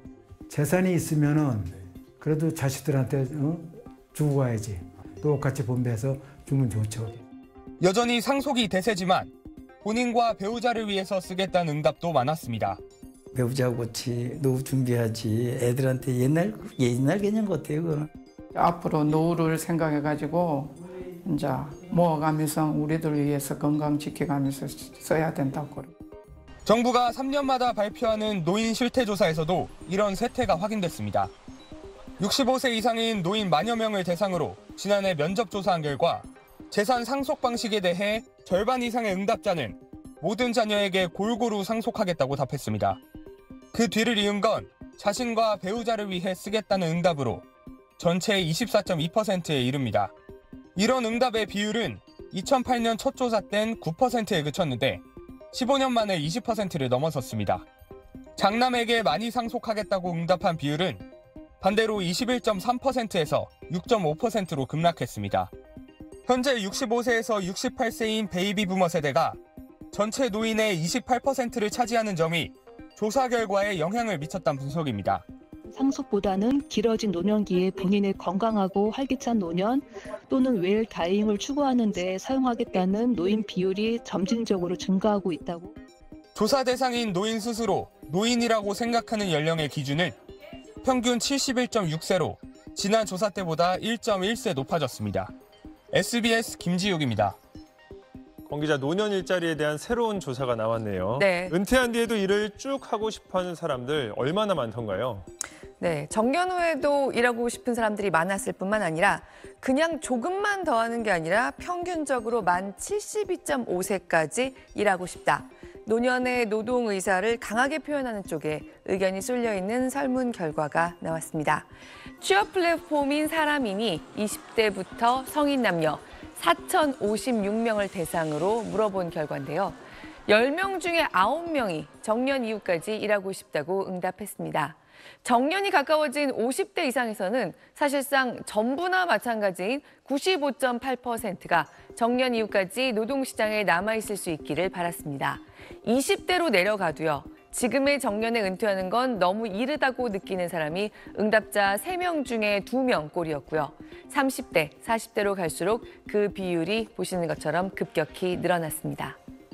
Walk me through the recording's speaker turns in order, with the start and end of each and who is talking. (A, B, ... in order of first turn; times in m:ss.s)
0:00.5-0:07.2 A
0:07.8-0:09.3 B
0:09.8-0:12.8 B
0:13.3-0:18.1 C
0:18.5-0:20.7 D
0:21.2-0:25.9 D
0:26.6-0:31.3 B
0:32.2-0:43.0 B
0:43.7-0:47.4 B
0:48.0-0:50.1 B
0:50.8-0:57.6 B
0:58.4-1:01.0 B
1:01.6-1:05.5 B
1:06.3-1:09.4 B
1:09.9-1:15.2 B
1:15.7-1:25.7 E
1:26.3-1:30.1 B
1:30.8-1:35.3 B
1:35.9-1:37.4 B
1:38.5-1:45.2 F
1:41.2-1:41.5 G
1:45.8-2:01.7 G
2:02.2-2:39.2 G